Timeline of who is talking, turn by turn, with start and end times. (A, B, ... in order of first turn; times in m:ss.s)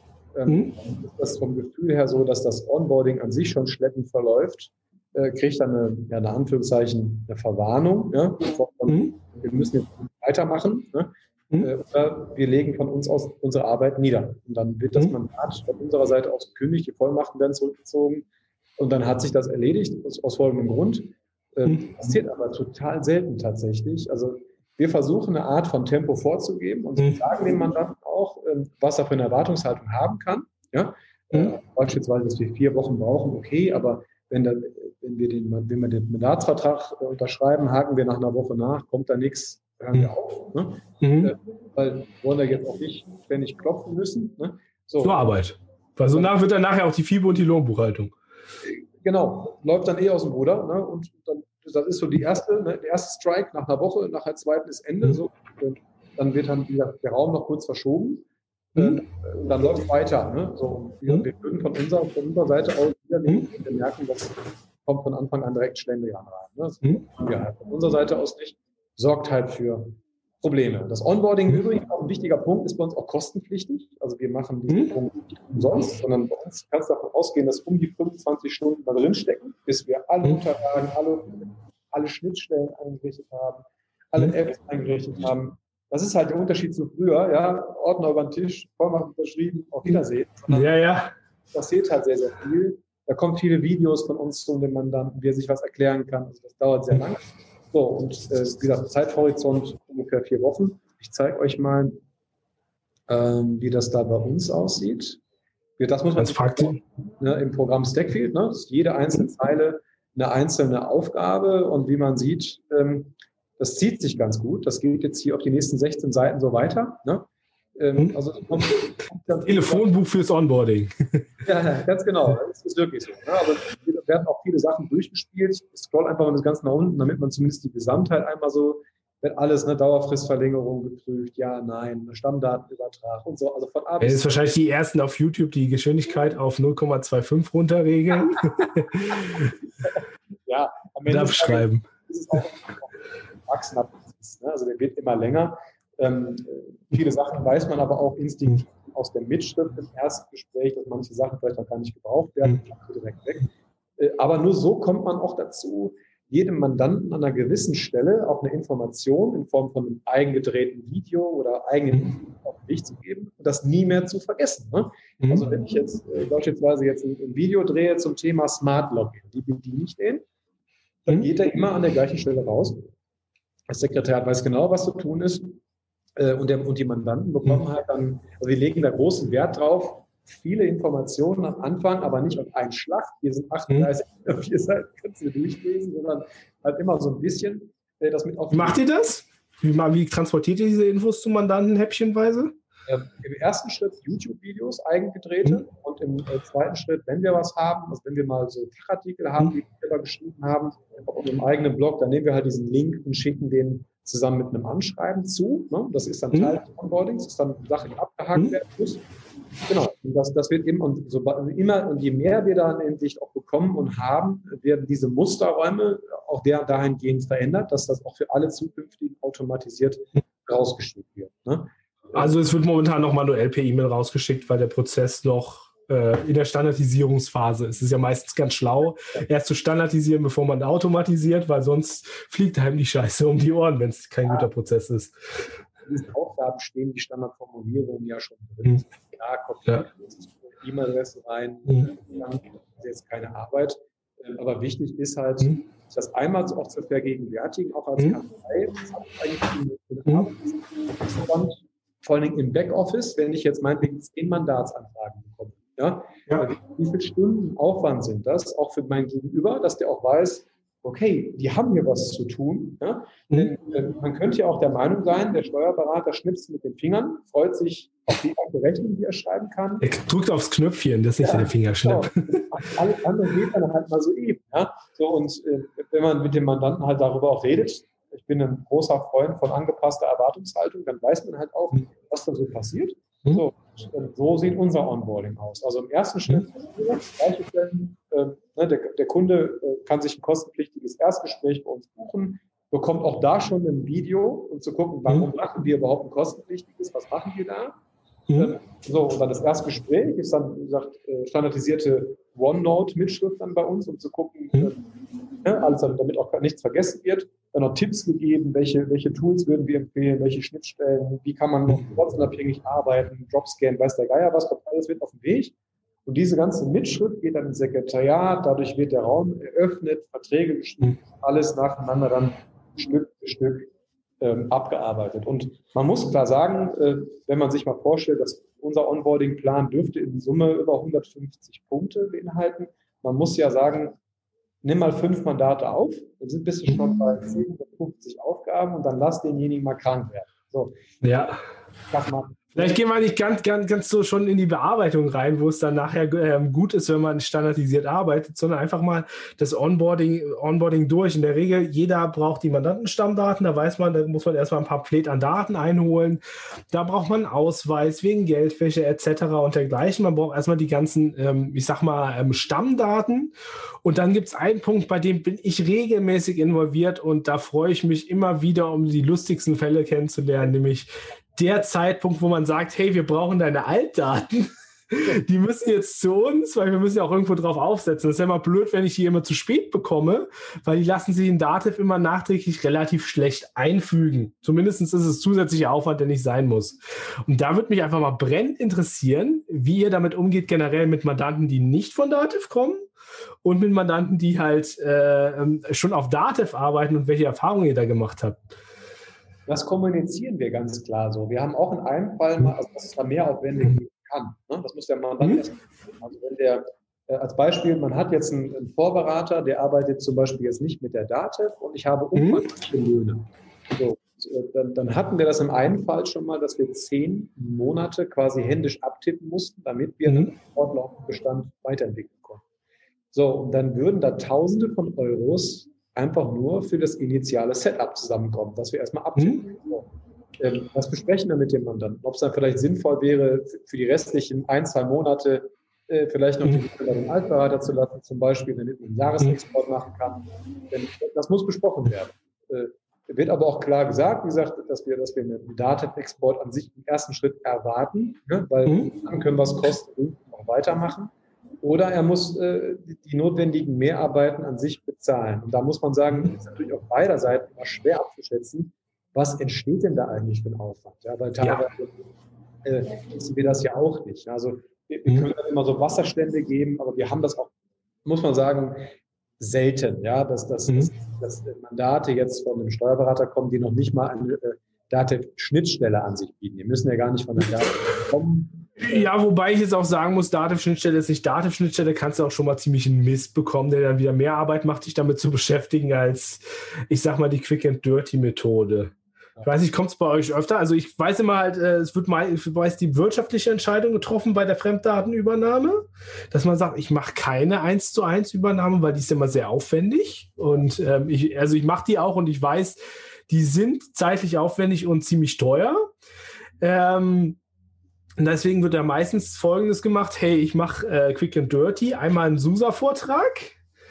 0:00.3-0:18.3 A
0:18.8-0:45.2 A
0:41.0-0:41.3 B
0:45.0-0:48.1 B
0:48.6-1:30.7 A
0:58.8-0:59.0 B
1:30.5-1:31.1 B
1:31.5-1:42.0 A
1:43.1-1:45.2 A
1:45.8-1:59.9 A
1:46.2-1:46.8 B
1:59.4-2:01.2 B
2:01.4-2:14.4 A
2:14.0-2:19.5 B
2:20.5-2:50.2 A
2:21.1-2:21.8 B
2:51.0-2:52.9 A
2:53.7-2:55.6 A
2:56.2-3:08.8 A
3:08.5-3:12.5 B
3:12.9-3:29.0 A
3:29.7-3:42.4 A
3:42.1-3:55.2 B
3:55.8-4:29.9 A
4:29.8-4:32.4 B
4:31.2-4:57.7 A
4:58.3-5:04.8 A
5:05.4-5:34.0 A
5:34.6-5:40.8 A
5:41.0-5:41.4 B
5:41.9-5:42.8 A
5:42.5-6:32.9 B
6:33.4-6:38.4 B
6:39.5-7:02.4 A
6:52.2-6:52.4 B
7:03.1-7:09.9 A
7:10.4-7:42.0 A
7:42.6-7:47.5 A
7:48.0-7:59.1 A
7:58.8-8:08.9 B
8:09.4-8:25.8 B
8:26.6-8:27.4 B
8:28.2-8:33.5 B